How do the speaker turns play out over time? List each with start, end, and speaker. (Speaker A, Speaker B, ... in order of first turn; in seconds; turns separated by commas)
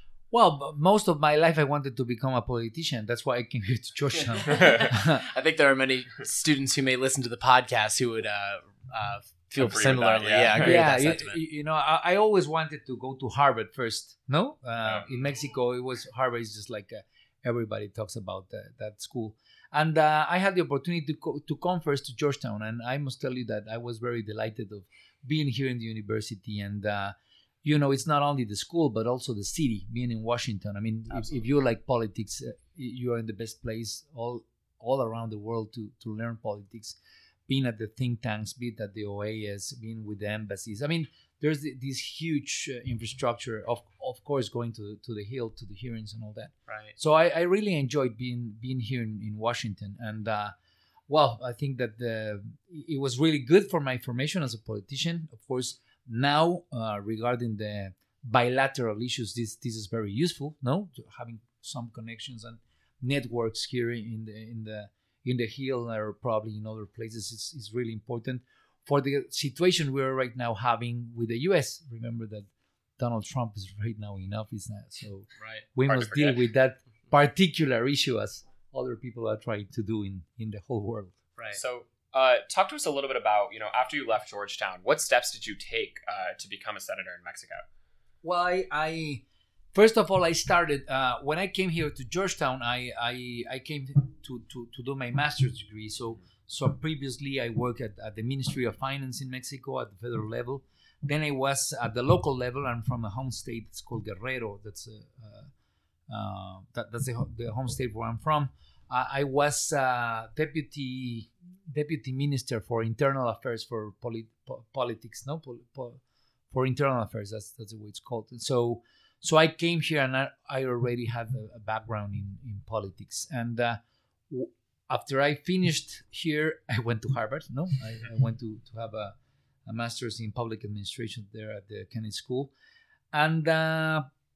Speaker A: 0.3-5.2, Speaker B: 4.4-11.4, Speaker C: 9.6-10.9, Speaker A: 10.6-37.0, Speaker A: 37.5-50.5, Speaker B: 46.7-46.9, Speaker A: 51.1-81.2, Speaker B: 75.4-76.3, Speaker C: 81.5-87.6, Speaker A: 88.2-89.2, Speaker A: 89.7-105.5, Speaker A: 106.1-129.2, Speaker A: 129.7-132.5, Speaker A: 133.1-134.1